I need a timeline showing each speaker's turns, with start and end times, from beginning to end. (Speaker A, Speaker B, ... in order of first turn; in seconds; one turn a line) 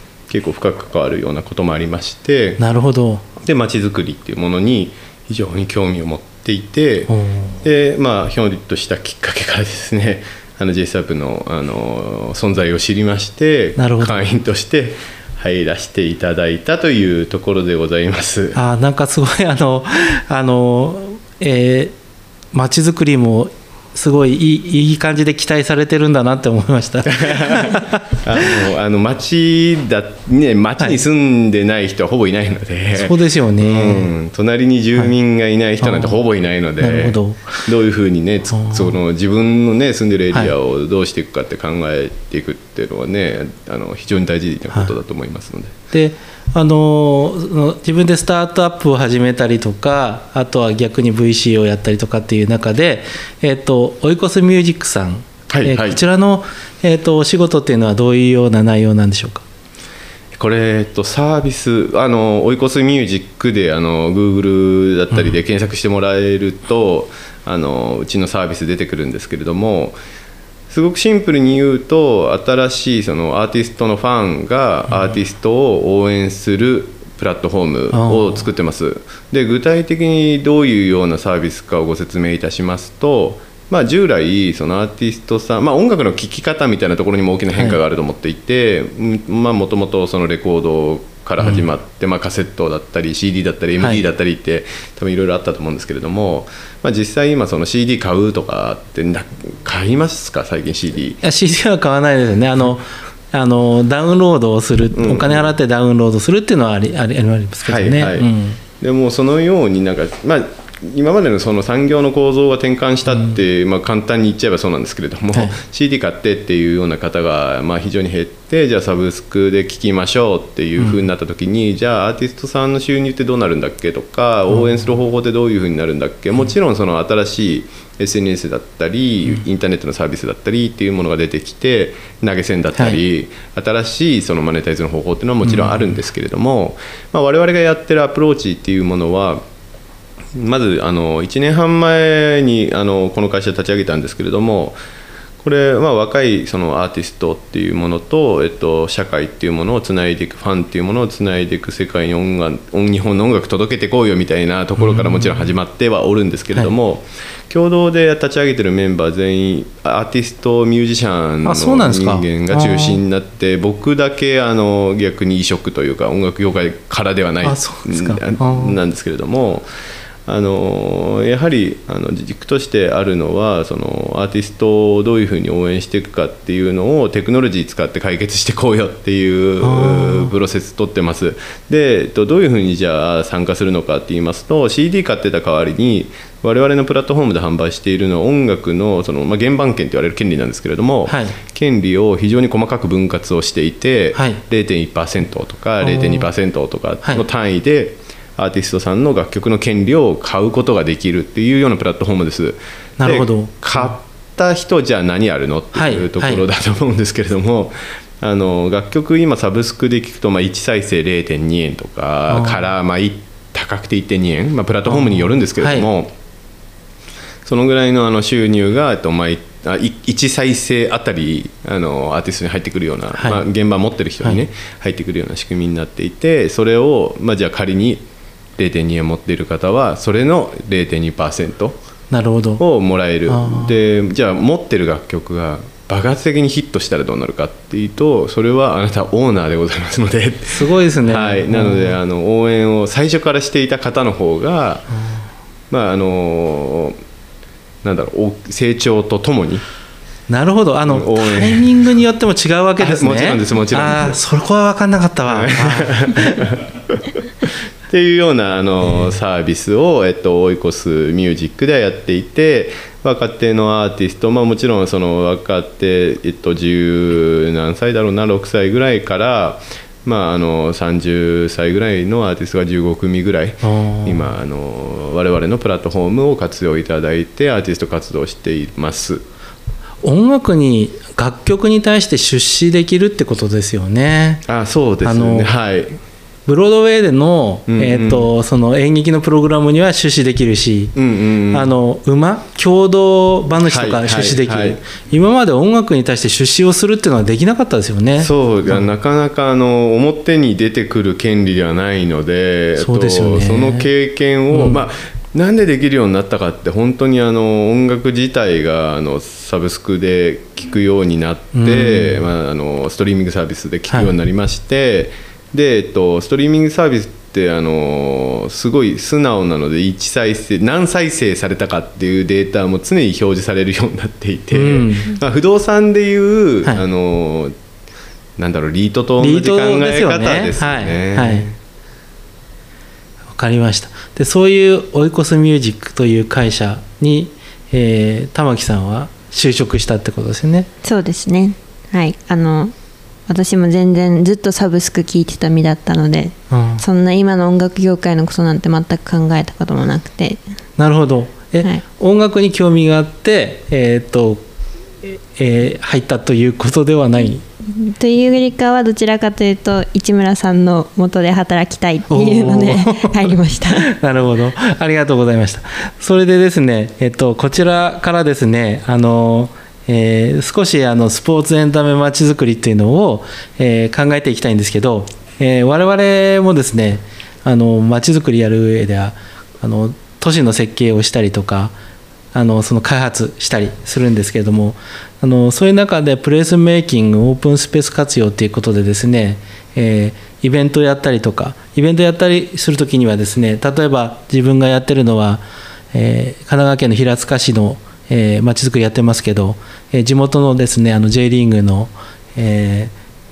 Speaker A: 0.3-2.6
Speaker B: 2.6-3.2
Speaker A: 3.4-18.6
Speaker B: 7.1-7.6
Speaker B: 13.8-14.2
Speaker B: 18.5-21.9
Speaker B: 22.5-28.5
Speaker A: 27.2-45.7
Speaker B: 33.0-34.1
Speaker B: 35.8-36.2
Speaker B: 36.8-37.7
Speaker B: 38.5-39.0
Speaker B: 45.9-59.5
Speaker A: 55.5-56.0
Speaker A: 60.4-70.0
Speaker B: 65.1-65.4
Speaker A: 70.7-101.2
Speaker B: 77.9-78.5
Speaker B: 87.5-87.8
Speaker B: 91.4-91.7
Speaker B: 93.8-94.0
Speaker B: 101.2-108.6
Speaker A: 104.9-105.5
Speaker A: 107.7-108.3
Speaker A: 108.8-139.4
Speaker B: 113.1-113.4
Speaker B: 120.8-121.0
Speaker B: 124.5-124.9
Speaker B: 135.4-135.9
Speaker A: 140.3-144.8
Speaker A: 145.4-169.7
Speaker B: 154.8-155.5
Speaker B: 161.4-163.0
Speaker B: 167.4-168.8
Speaker A: 170.3-216.1
Speaker B: 179.6-180.3
Speaker B: 191.1-191.4
Speaker B: 194.1-194.4
Speaker B: 195.8-196.3
Speaker B: 203.0-204.0
Speaker B: 205.7-206.4
Speaker B: 212.3-212.7
Speaker B: 214.9-215.9
Speaker A: 217.4-228.0
Speaker B: 223.1-223.4
Speaker A: 228.6-231.8
Speaker B: 232.1-232.6
Speaker A: 232.6-244.9
Speaker B: 233.3-233.8
Speaker B: 240.5-242.0
Speaker B: 244.9-245.3
Speaker A: 245.7-247.0
Speaker A: 247.8-249.6
Speaker B: 250.3-256.5
Speaker A: 250.9-251.9
Speaker A: 252.8-254.2
Speaker A: 255.3-279.2
Speaker B: 273.6-274.3
Speaker B: 280.0-284.4
Speaker A: 284.5-286.0
Speaker B: 285.0-285.6
Speaker B: 286.5-290.9
Speaker A: 287.7-288.3
Speaker A: 290.9-291.7
Speaker B: 291.5-298.9
Speaker A: 293.6-294.8
Speaker A: 298.2-327.5
Speaker B: 302.8-303.9
Speaker B: 304.5-304.8
Speaker B: 311.5-312.3
Speaker B: 324.5-325.1
Speaker A: 328.4-331.6
Speaker B: 329.2-331.5
Speaker B: 333.3-340.7
Speaker C: 340.8-342.7
Speaker C: 343.3-350.4
Speaker B: 346.5-346.8
Speaker B: 350.8-354.4
Speaker B: 355.0-357.4
Speaker C: 357.6-363.9
Speaker B: 362.1-381.8
Speaker B: 382.3-402.9